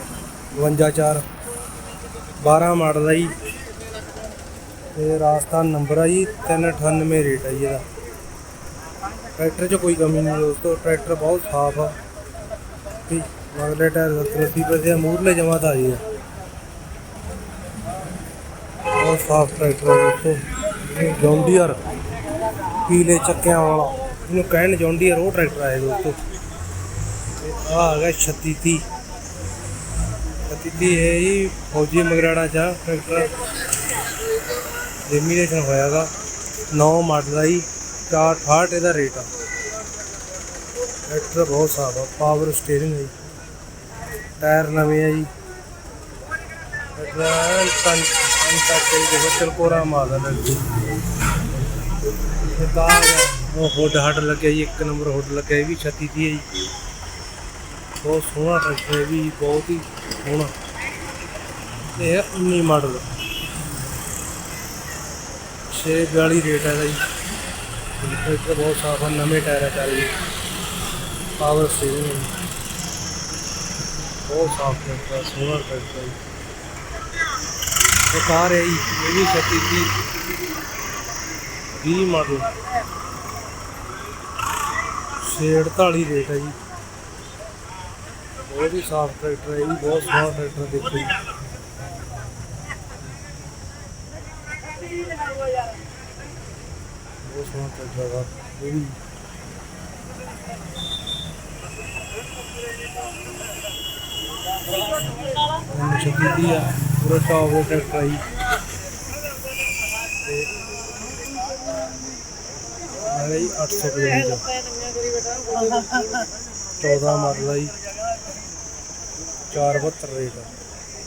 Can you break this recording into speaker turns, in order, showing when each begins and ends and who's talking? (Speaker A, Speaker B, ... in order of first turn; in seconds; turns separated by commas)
Speaker A: 0.5-1.3, Speaker A: 2.4-3.4, Speaker A: 4.9-7.8, Speaker A: 9.3-12.0, Speaker A: 13.1-16.0, Speaker A: 18.9-21.8, Speaker A: 22.9-26.2, Speaker A: 27.4-28.9, Speaker A: 30.5-33.4, Speaker A: 35.0-36.1, Speaker A: 36.7-39.3, Speaker A: 41.1-43.1, Speaker A: 44.4-45.3, Speaker A: 47.0-50.7, Speaker A: 52.4-56.5, Speaker A: 58.0-60.5, Speaker A: 61.9-63.1, Speaker A: 65.7-67.0, Speaker A: 68.0-70.1, Speaker A: 71.4-72.3, Speaker A: 74.3-76.2, Speaker A: 78.1-79.9, Speaker A: 81.7-82.5, Speaker A: 85.2-86.6, Speaker A: 88.5-91.2, Speaker A: 97.2-99.0, Speaker A: 105.7-108.2, Speaker A: 110.2-110.5, Speaker A: 113.1-114.5, Speaker A: 116.8-117.8, Speaker A: 119.5-120.5